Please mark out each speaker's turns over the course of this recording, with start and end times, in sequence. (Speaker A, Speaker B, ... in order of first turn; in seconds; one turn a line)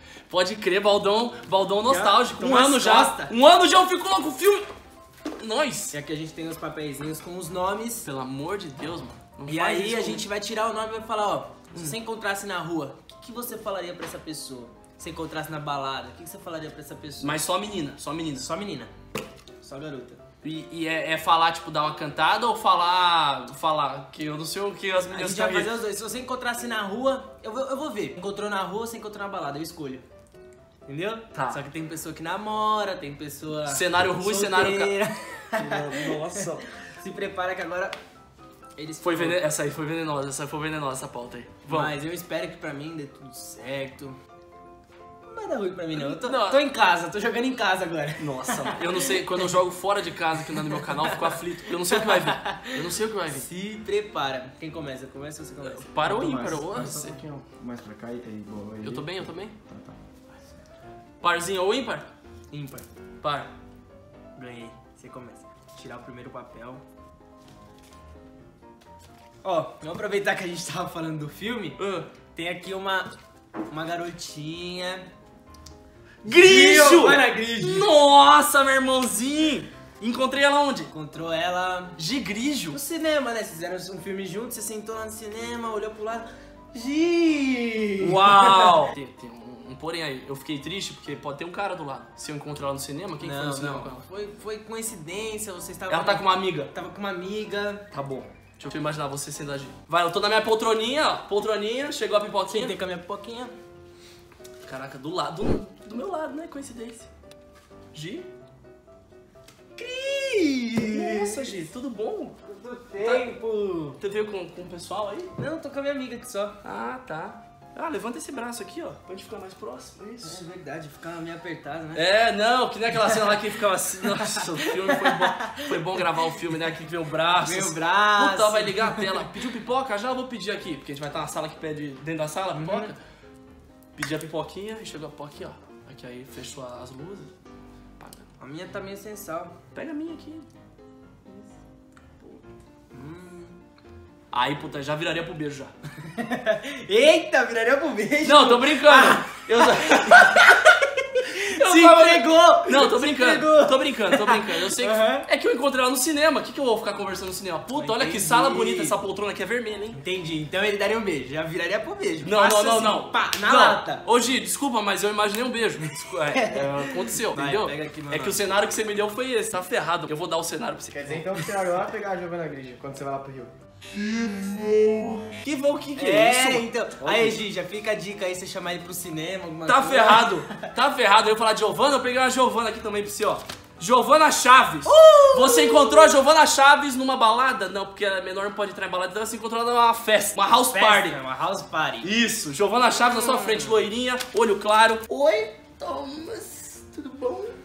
Speaker A: 0.3-4.7
Speaker B: 1.9-3.3
Speaker A: 5.4-5.9
Speaker B: 5.9-8.1
Speaker A: 8.0-10.2
Speaker B: 9.4-17.4
Speaker A: 17.2-18.5
Speaker B: 18.3-18.9
Speaker B: 19.6-20.2
Speaker A: 20.4-25.7
Speaker B: 25.1-30.0
Speaker B: 30.9-36.5
Speaker A: 33.7-34.9
Speaker A: 35.5-36.6
Speaker B: 37.0-38.0
Speaker B: 38.8-39.4
Speaker A: 39.0-41.9
Speaker B: 41.7-44.2
Speaker B: 45.2-49.5
Speaker A: 45.9-46.6
Speaker A: 48.2-53.5
Speaker B: 50.6-55.9
Speaker A: 55.6-57.2
Speaker C: 56.0-60.0
Speaker A: 58.8-59.5
Speaker A: 61.2-62.1
Speaker B: 62.5-62.9
Speaker A: 63.2-63.5
Speaker B: 64.3-66.8
Speaker B: 69.4-73.1
Speaker A: 71.8-72.1
Speaker B: 73.7-75.1
Speaker B: 76.2-77.9
Speaker A: 76.2-80.9
Speaker B: 80.9-82.0
Speaker A: 82.0-82.8
Speaker B: 82.7-88.9
Speaker A: 88.0-94.0
Speaker B: 93.2-97.9
Speaker A: 95.9-96.7
Speaker A: 97.9-102.7
Speaker B: 102.5-103.5
Speaker A: 104.6-107.1
Speaker A: 107.9-108.3
Speaker B: 109.8-111.6
Speaker A: 110.8-112.4
Speaker B: 112.4-114.0
Speaker A: 113.0-113.3
Speaker A: 114.0-115.3
Speaker B: 115.4-116.6
Speaker A: 116.6-120.4
Speaker B: 120.2-122.0
Speaker A: 121.9-133.0
Speaker B: 123.0-123.3
Speaker B: 124.0-126.1
Speaker B: 127.4-129.2
Speaker B: 132.5-132.9
Speaker A: 133.9-137.3
Speaker A: 138.0-138.3
Speaker B: 138.4-139.6
Speaker A: 139.7-140.5
Speaker B: 142.9-143.6
Speaker A: 144.3-145.7
Speaker B: 146.0-155.3
Speaker A: 148.2-150.6
Speaker A: 151.4-160.0
Speaker B: 157.7-158.9
Speaker B: 159.9-164.0
Speaker A: 162.2-171.2
Speaker B: 166.3-168.4
Speaker C: 170.9-173.5
Speaker A: 174.8-177.3
Speaker B: 176.0-180.6
Speaker A: 179.7-191.2
Speaker B: 184.8-186.1
Speaker B: 190.7-192.1
Speaker A: 192.0-197.5
Speaker B: 193.0-193.8